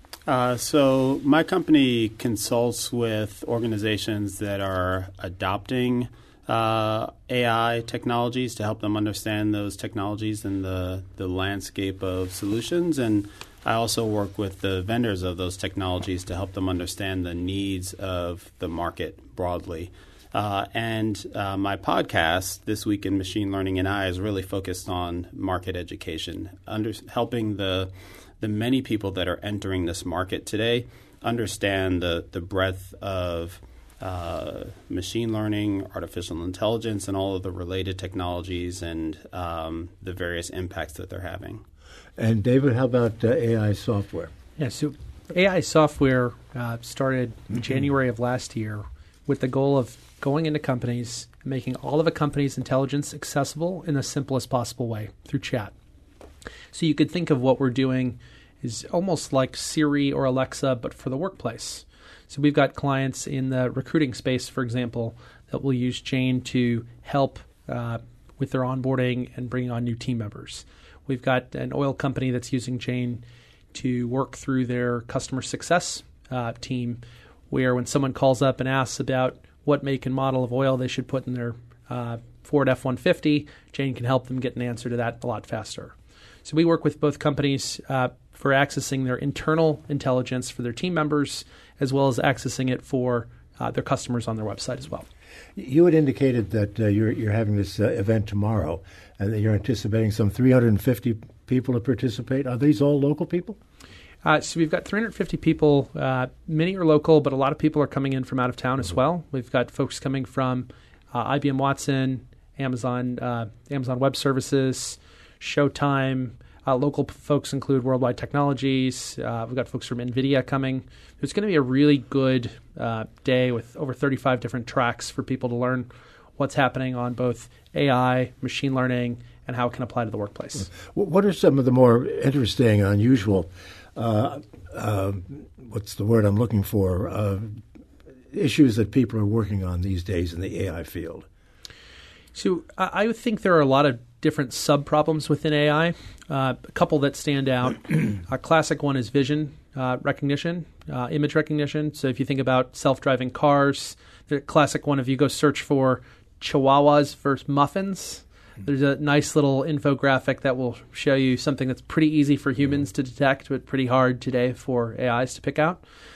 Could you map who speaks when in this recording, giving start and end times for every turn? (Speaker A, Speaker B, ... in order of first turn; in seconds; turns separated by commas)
Speaker A: 0.3-41.6, Speaker B: 42.2-44.3, Speaker C: 44.6-55.7, Speaker C: 56.7-85.9, Speaker C: 86.5-95.1, Speaker B: 95.6-103.6, Speaker C: 104.2-130.7, Speaker B: 130.7-137.6, Speaker B: 138.3-141.3, Speaker C: 142.3-165.8